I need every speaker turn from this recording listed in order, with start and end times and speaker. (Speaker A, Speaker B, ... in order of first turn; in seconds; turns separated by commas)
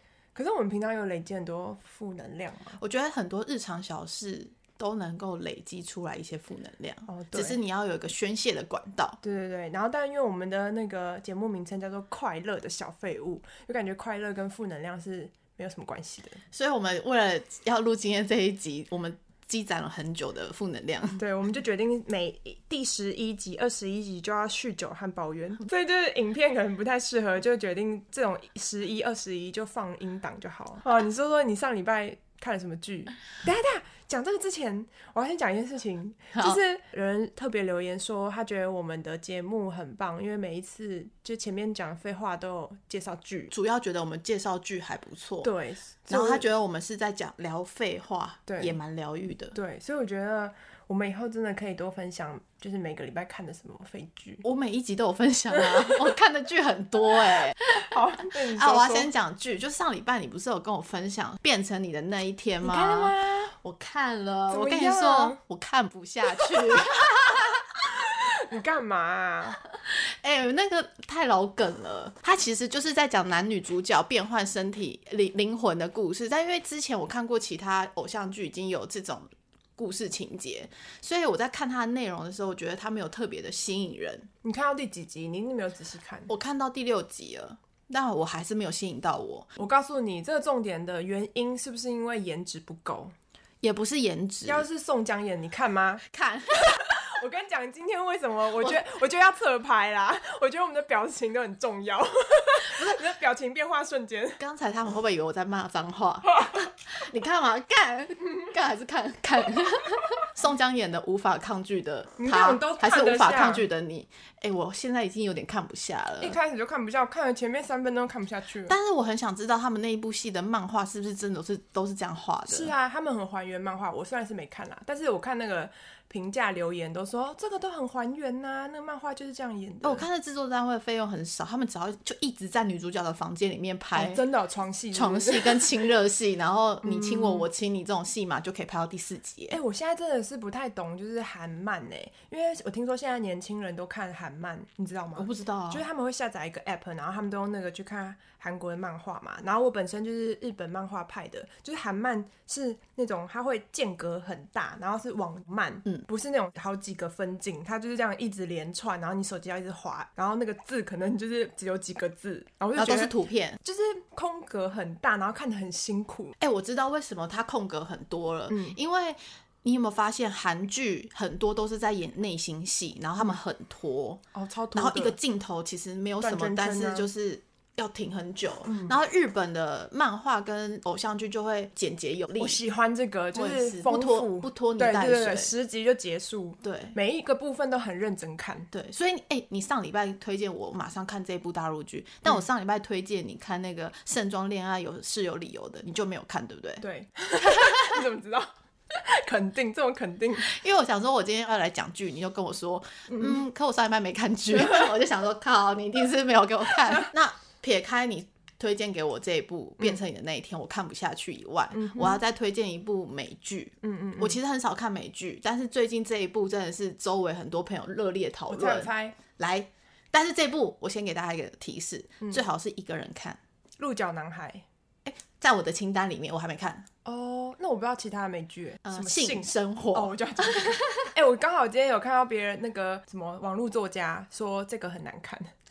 Speaker A: 0.3-2.8, Speaker B: 2.8-9.2, Speaker A: 7.1-7.6, Speaker A: 9.2-16.4, Speaker B: 16.5-21.2, Speaker A: 21.2-43.5, Speaker B: 43.5-45.5, Speaker A: 45.4-46.5, Speaker B: 46.1-49.5, Speaker A: 48.5-48.8, Speaker A: 49.5-54.4, Speaker B: 54.4-67.7, Speaker A: 55.5-56.0, Speaker A: 57.7-59.1, Speaker A: 62.6-63.5, Speaker A: 64.5-65.4, Speaker A: 66.3-69.6, Speaker B: 69.7-79.2, Speaker B: 79.8-84.3, Speaker A: 84.4-86.3, Speaker B: 86.3-89.5, Speaker A: 89.6-93.1, Speaker B: 93.6-94.6, Speaker A: 94.5-96.0, Speaker B: 96.0-96.8, Speaker A: 96.5-104.4, Speaker B: 102.7-103.0, Speaker B: 104.4-116.3, Speaker A: 112.2-113.6, Speaker A: 116.2-118.7, Speaker B: 118.7-122.7, Speaker A: 122.5-130.1, Speaker B: 129.8-134.2, Speaker A: 133.9-135.8, Speaker B: 134.9-139.6, Speaker A: 136.8-137.5, Speaker A: 139.5-166.3, Speaker B: 145.2-145.8, Speaker B: 162.8-163.6, Speaker B: 166.4-174.2, Speaker A: 168.5-168.8, Speaker A: 174.3-175.2, Speaker B: 174.7-182.6, Speaker A: 176.2-177.1, Speaker A: 178.7-178.9, Speaker A: 182.4-188.7, Speaker B: 183.3-185.5, Speaker B: 186.6-186.9, Speaker B: 188.7-196.8, Speaker A: 196.8-200.6, Speaker B: 197.4-198.0, Speaker B: 200.4-223.4, Speaker A: 203.1-203.4, Speaker A: 206.8-207.1, Speaker A: 211.7-212.2, Speaker A: 213.8-214.4, Speaker A: 218.5-219.2, Speaker A: 222.2-222.4, Speaker A: 223.8-224.6, Speaker B: 225.0-226.9, Speaker A: 227.0-235.5, Speaker B: 228.8-231.1